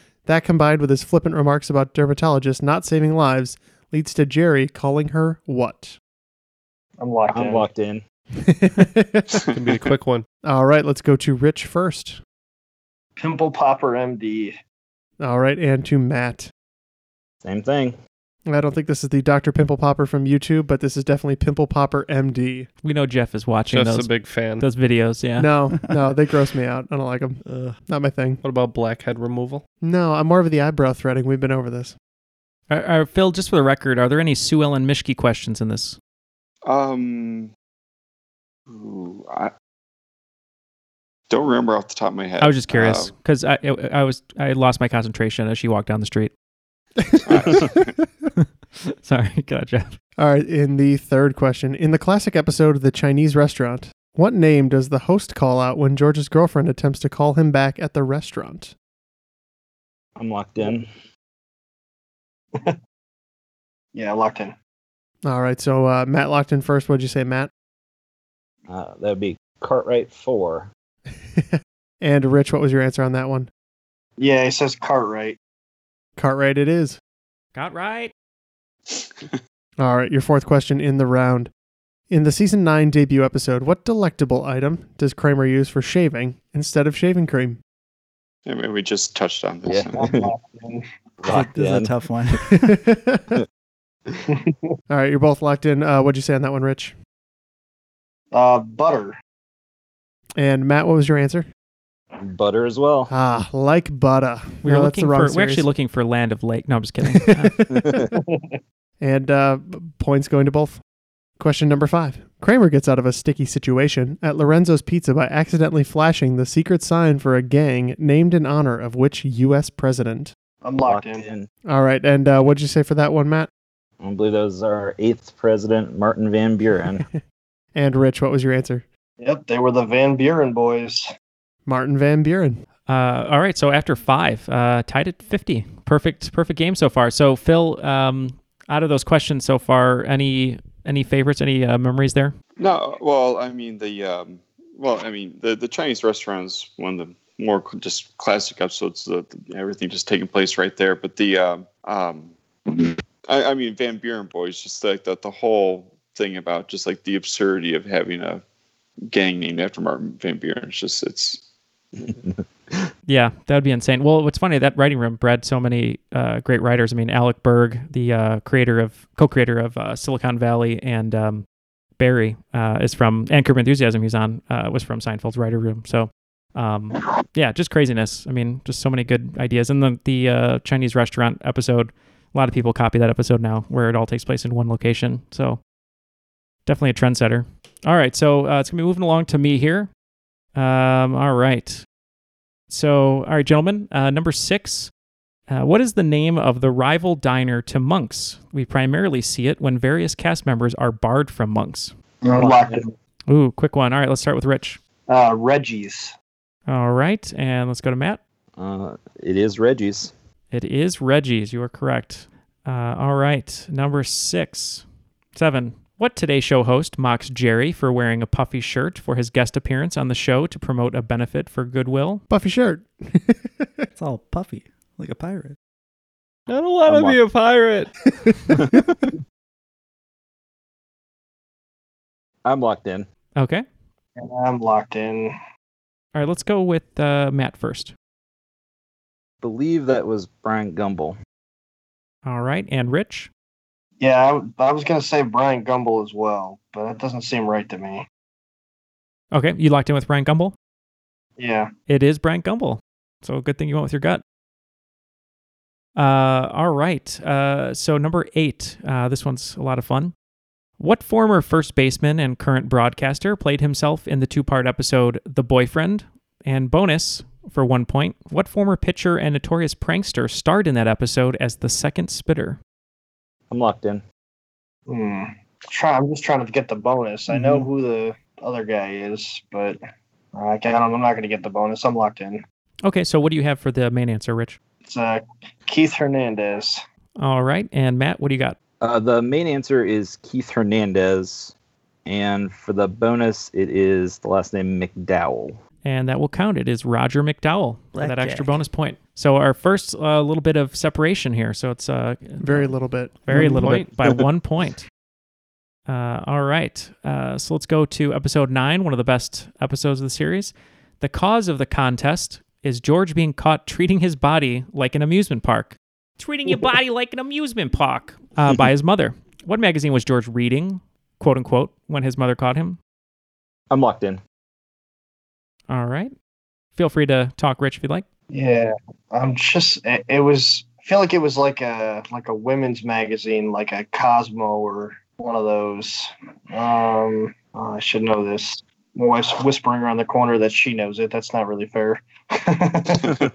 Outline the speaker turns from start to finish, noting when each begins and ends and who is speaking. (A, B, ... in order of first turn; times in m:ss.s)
0:00.2-0:06.0 A
0:07.0-0:07.7 B
0:07.3-0:08.0 C
0:08.4-0:09.3 A
0:09.5-0:10.2 D
0:10.4-0:12.2 A
0:13.2-0:14.6 B
0:15.2-0:16.5 A
0:17.4-0:18.0 C
0:18.5-0:22.7 A
0:22.8-0:25.5 E
0:23.7-0:24.7 D
0:25.4-0:28.4 A
0:28.4-0:29.6 D
0:29.8-0:31.9 A
0:32.7-0:36.0 E
0:36.7-0:37.5 F
0:38.7-0:39.5 F
0:41.3-0:43.1 F
0:42.4-0:46.3 E
0:47.0-0:47.6 A
0:47.3-0:47.9 F
0:48.4-0:49.9 E
0:50.2-0:58.7 A
1:00.2-1:00.9 C
1:03.9-1:04.6 B
1:05.2-1:07.5 A
1:08.7-1:10.7 C
1:11.2-1:13.5 A
1:14.2-1:15.4 B
1:16.2-1:17.0 A
1:17.6-1:18.1 E
1:19.8-1:21.5 A
1:22.1-1:27.6 A
1:28.5-1:30.0 F
1:29.7-1:30.3 C
1:29.9-1:30.9 B
1:31.2-1:31.9 C
1:31.3-1:32.7 G
1:32.4-1:33.4 A
1:34.3-1:34.7 B
1:34.9-1:37.0 A
1:38.3-1:39.2 B
1:40.4-1:41.5 A
1:42.2-1:43.1 C
1:43.1-1:45.7 A
1:44.6-1:47.6 E
1:47.3-1:48.0 A
1:47.8-1:48.0 C
1:48.1-1:48.6 B
1:49.0-1:50.8 A
1:51.4-2:00.3 A
2:00.6-2:01.3 B
2:00.8-2:01.5 C
2:01.7-2:03.5 A
2:04.0-2:07.0 C
2:07.8-2:08.8 A
2:09.2-2:11.1 B
2:11.7-2:12.6 A
2:12.9-2:22.4 E
2:22.6-2:38.4 F
2:39.1-2:41.4 F
2:42.0-2:42.4 C
2:43.1-2:51.5 E
2:52.0-3:05.6 E
3:06.7-3:09.9 E
3:10.6-3:11.8 E
3:12.7-3:14.9 E
3:15.5-3:21.9 E
3:22.2-3:22.9 B
3:23.3-3:24.8 E
3:25.1-3:26.2 B
3:26.7-3:28.2 E
3:28.6-3:30.1 C
3:30.5-3:42.2 E
3:42.3-3:43.9 A
3:44.0-3:45.6 G
3:46.5-3:47.9 D
3:46.9-3:47.2 C
3:52.4-3:53.1 C
3:53.4-3:53.6 E
3:54.2-3:55.3 B
3:56.2-3:57.9 E
3:59.4-4:01.2 C
4:02.2-4:03.3 E
4:04.0-4:08.0 B
4:09.3-4:10.5 E
4:11.4-4:11.7 B
4:11.9-4:14.2 E
4:16.0-4:20.1 E
4:20.8-4:32.6 E
4:33.5-4:34.0 C
4:34.9-4:39.8 B
4:37.3-4:37.7 G
4:40.4-4:42.4 B
4:42.8-4:44.6 E
4:44.8-4:46.8 B
4:47.2-4:48.6 E
4:48.8-4:51.5 C
4:52.1-4:55.6 C
4:55.8-5:02.7 E
4:58.0-4:58.6 G
5:02.4-5:03.2 A
5:03.3-5:04.9 E
5:03.3-5:03.9 D
5:03.3-5:03.7 G
5:05.9-5:22.8 E
5:23.7-5:24.2 C
5:25.7-5:26.1 E
5:26.8-5:28.0 E
5:28.3-5:43.1 B